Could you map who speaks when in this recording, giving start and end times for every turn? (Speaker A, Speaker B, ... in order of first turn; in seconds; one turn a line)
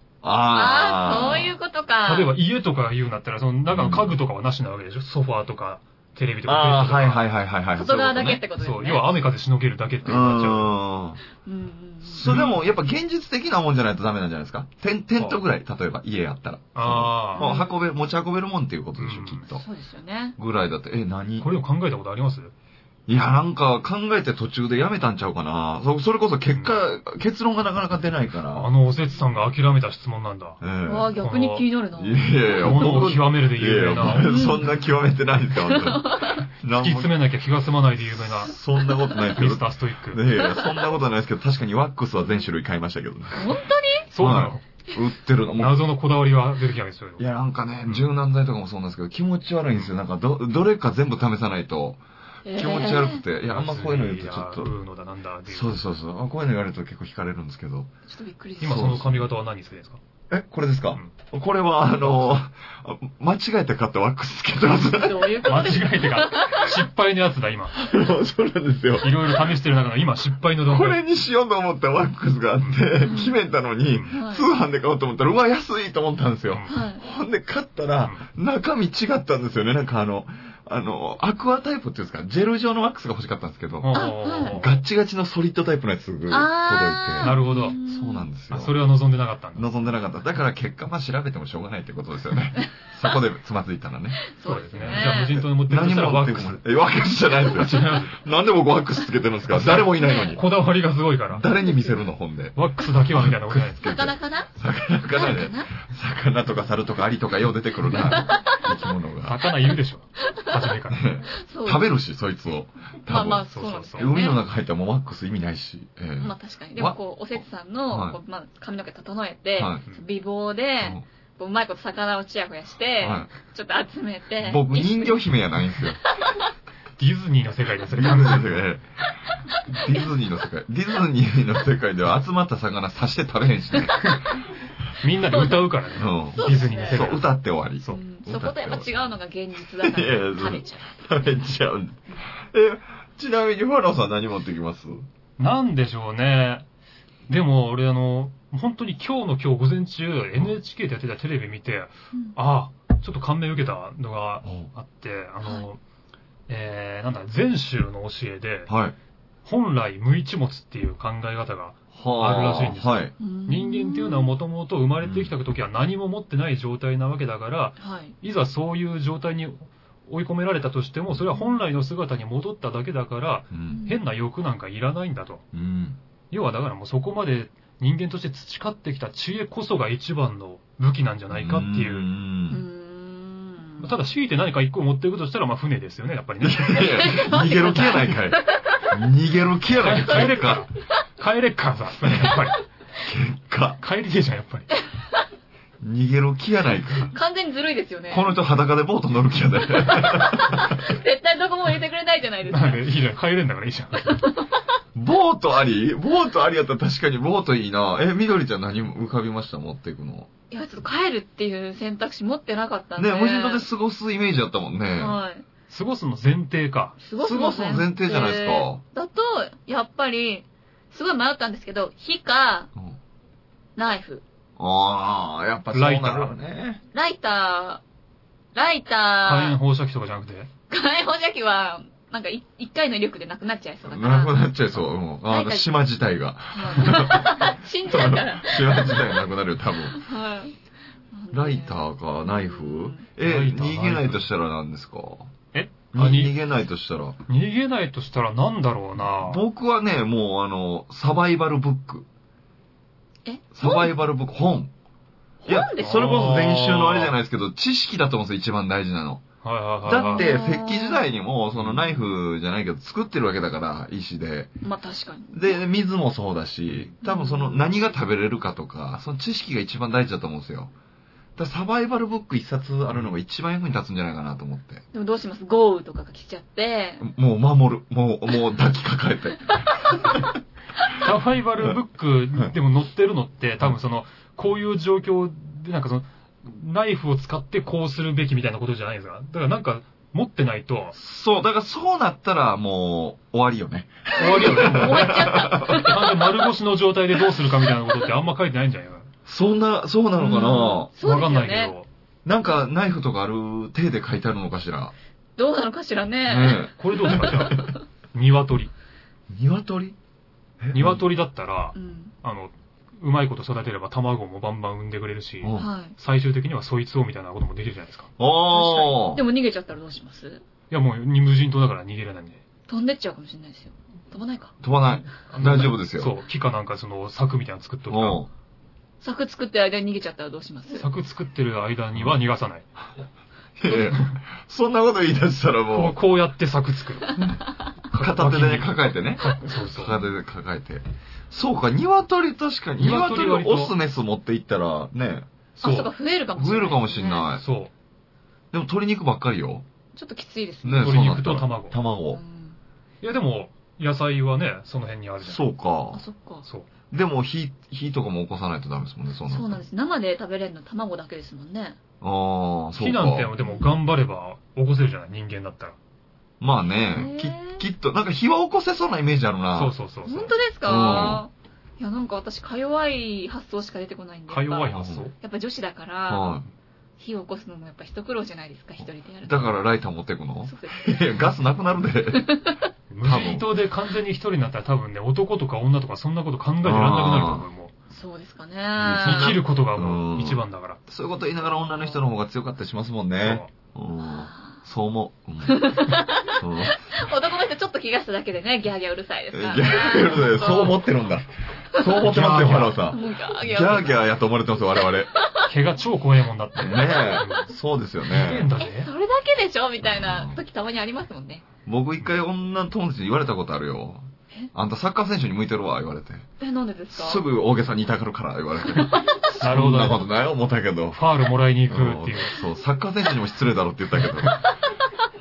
Speaker A: 0.2-1.6
Speaker B: 0.5-2.3
Speaker C: 2.0-7.2
Speaker A: 3.7-4.2
Speaker A: 6.5-8.4
Speaker B: 7.8-9.2
Speaker C: 8.6-10.8
Speaker A: 10.0-11.2
Speaker B: 11.4-12.4
Speaker A: 12.1-19.6
Speaker C: 12.2-12.6
Speaker C: 16.8-17.4
Speaker B: 17.4-17.8
Speaker C: 19.0-19.4
Speaker B: 19.5-20.4
Speaker A: 20.4-21.5
Speaker C: 21.4-22.5
Speaker A: 23.1-28.7
Speaker C: 28.5-30.6
Speaker A: 30.6-31.1
Speaker B: 30.9-32.4
Speaker C: 31.2-31.7
Speaker A: 32.0-37.2
Speaker C: 32.6-34.4
Speaker B: 34.1-34.7
Speaker B: 35.6-36.4
Speaker C: 36.7-38.6
Speaker A: 38.1-43.6
Speaker C: 39.3-40.2
Speaker B: 40.4-40.8
Speaker B: 43.3-44.1
Speaker C: 44.1-44.6
Speaker A: 44.2-45.8
Speaker C: 45.6-47.2
Speaker A: 47.2-52.0
Speaker B: 52.5-53.2
Speaker A: 52.5-54.7
Speaker C: 53.5-55.8
Speaker A: 55.5-57.9
Speaker B: 58.1-59.0
Speaker C: 58.6-60.0
Speaker A: 58.6-59.3
Speaker A: 60.3-65.7
Speaker C: 62.0-62.4
Speaker B: 64.8-66.8
Speaker C: 65.4-67.8
Speaker A: 67.8-69.5
Speaker C: 69.0-71.0
Speaker A: 70.7-88.8
Speaker B: 73.0-73.4
Speaker C: 73.9-74.2
Speaker B: 74.1-74.5
Speaker B: 76.7-77.0
Speaker C: 83.8-84.7
Speaker B: 83.9-84.7
Speaker B: 86.3-88.3
Speaker C: 87.2-87.8
Speaker C: 88.5-89.7
Speaker A: 89.6-100.4
Speaker B: 94.2-95.4
Speaker C: 94.4-96.6
Speaker C: 97.4-98.2
Speaker C: 99.5-101.5
Speaker B: 100.0-100.4
Speaker A: 101.3-109.4
Speaker B: 101.6-102.0
Speaker C: 102.6-104.1
Speaker B: 103.8-104.5
Speaker B: 105.1-105.8
Speaker B: 108.0-108.7
Speaker C: 109.2-111.0
Speaker A: 110.9-117.0
Speaker B: 111.4-112.0
Speaker B: 113.1-114.4
Speaker C: 113.5-114.1
Speaker B: 116.2-125.2
Speaker A: 117.9-118.2
Speaker A: 119.6-119.8
Speaker A: 123.0-123.3
Speaker A: 124.4-126.0
Speaker B: 126.2-126.5
Speaker C: 127.0-128.6
Speaker A: 127.9-128.8
Speaker A: 129.7-134.2
Speaker C: 134.0-134.3
Speaker C: 135.0-138.0
Speaker B: 135.3-135.7
Speaker A: 136.0-138.9
Speaker B: 136.3-137.1
Speaker B: 137.9-141.0
Speaker A: 139.8-145.1
Speaker C: 145.4-146.7
Speaker C: 147.3-155.8
Speaker A: 154.4-154.7
Speaker C: 156.5-158.7
Speaker A: 158.7-159.0
Speaker C: 159.4-175.4
Speaker A: 161.9-163.1
Speaker B: 163.2-164.3
Speaker A: 165.0-165.3
Speaker B: 167.8-168.2
Speaker B: 171.3-171.6
Speaker A: 173.5-173.8
Speaker B: 173.7-174.0
Speaker A: 175.5-176.0
Speaker C: 176.3-182.1
Speaker A: 181.3-182.7
Speaker B: 182.5-183.9
Speaker C: 183.8-186.9
Speaker A: 186.4-190.7
Speaker B: 186.8-188.9
Speaker C: 189.8-192.6
Speaker A: 193.0-193.8
Speaker C: 193.8-194.7
Speaker A: 195.8-197.2
Speaker B: 197.1-198.3
Speaker A: 198.1-200.8
Speaker B: 199.8-202.8
Speaker C: 202.5-204.2
Speaker B: 204.1-204.5
Speaker A: 204.9-210.3
Speaker B: 210.5-213.7
Speaker A: 213.0-215.2
Speaker B: 215.0-215.4
Speaker C: 215.7-217.0
Speaker B: 217.0-222.7
Speaker A: 217.2-218.8
Speaker B: 223.8-224.2
Speaker A: 224.6-226.8
Speaker C: 225.7-226.3
Speaker B: 226.9-227.8
Speaker B: 228.6-229.6
Speaker C: 229.2-230.5
Speaker B: 230.7-234.5
Speaker A: 233.9-240.0
Speaker B: 235.3-235.7
Speaker B: 236.5-239.2
Speaker B: 239.9-240.6
Speaker B: 241.1-243.1
Speaker A: 241.3-245.3
Speaker C: 243.2-244.3
Speaker C: 245.5-246.4
Speaker A: 245.9-247.2
Speaker C: 247.3-249.4
Speaker A: 249.0-252.1
Speaker B: 253.2-253.9
Speaker A: 253.5-254.7
Speaker B: 255.4-256.3
Speaker A: 255.5-259.2
Speaker C: 255.8-257.1
Speaker C: 259.4-260.3
Speaker A: 259.9-264.5
Speaker B: 259.9-261.1
Speaker C: 261.5-261.9
Speaker B: 264.6-265.6
Speaker A: 265.3-270.7
Speaker B: 267.0-267.7
Speaker A: 271.4-274.8
Speaker B: 274.9-277.1
Speaker A: 277.0-280.2
Speaker B: 279.5-279.9
Speaker C: 280.9-291.0
Speaker A: 291.0-295.9
Speaker C: 294.2-299.1
Speaker B: 294.2-296.3
Speaker A: 299.3-300.9
Speaker B: 300.2-301.7
Speaker C: 301.0-301.9
Speaker A: 302.2-304.9
Speaker B: 305.4-307.7
Speaker A: 306.3-307.7
Speaker C: 306.8-308.7
Speaker A: 309.3-310.0
Speaker A: 310.6-311.0
Speaker C: 310.7-318.1
Speaker B: 311.8-312.1
Speaker A: 315.4-315.7
Speaker B: 315.6-315.9
Speaker A: 318.2-319.2
Speaker B: 318.5-320.4
Speaker C: 320.7-322.4
Speaker B: 322.7-324.6
Speaker A: 324.6-326.1
Speaker C: 325.3-328.2
Speaker A: 327.9-328.3
Speaker B: 329.0-330.9
Speaker C: 330.7-332.7
Speaker A: 333.6-336.0
Speaker C: 335.7-337.4
Speaker C: 337.9-339.9
Speaker A: 338.0-345.3
Speaker C: 342.8-343.7
Speaker C: 345.6-345.9
Speaker B: 345.6-347.3
Speaker A: 346.4-347.4
Speaker C: 347.4-347.7
Speaker A: 348.5-349.6
Speaker B: 349.9-351.0
Speaker A: 350.6-352.2
Speaker C: 350.8-351.8
Speaker B: 352.1-352.6
Speaker C: 353.0-355.4
Speaker A: 355.2-356.0
Speaker B: 355.9-356.5
Speaker A: 356.9-359.6
Speaker B: 359.3-361.8
Speaker A: 362.0-363.3
Speaker C: 362.8-365.8
Speaker B: 363.4-363.7
Speaker A: 366.4-369.8
Speaker B: 366.8-367.6
Speaker C: 369.5-370.3
Speaker B: 370.1-376.4
Speaker A: 370.6-371.3
Speaker C: 374.3-375.1
Speaker A: 374.7-375.1
Speaker A: 376.1-376.5
Speaker B: 377.0-379.6
Speaker A: 379.2-382.3
Speaker B: 380.5-381.1
Speaker B: 382.1-382.6
Speaker C: 382.9-387.7
Speaker A: 383.0-383.5
Speaker A: 386.6-387.5
Speaker B: 387.9-389.4
Speaker A: 388.8-396.8
Speaker C: 389.0-390.8
Speaker B: 391.6-392.0
Speaker C: 393.2-393.5
Speaker B: 394.0-394.6
Speaker B: 395.4-400.9
Speaker A: 399.3-405.1
Speaker C: 402.0-402.8
Speaker B: 402.9-404.0
Speaker B: 405.1-405.5
Speaker C: 405.5-407.5
Speaker A: 406.6-408.5
Speaker C: 408.1-408.9
Speaker B: 408.6-411.5
Speaker A: 409.8-410.4
Speaker A: 411.7-416.3
Speaker B: 416.4-417.3
Speaker A: 416.9-421.0
Speaker B: 418.7-419.3
Speaker C: 419.4-420.1
Speaker C: 420.9-422.4
Speaker A: 421.7-424.4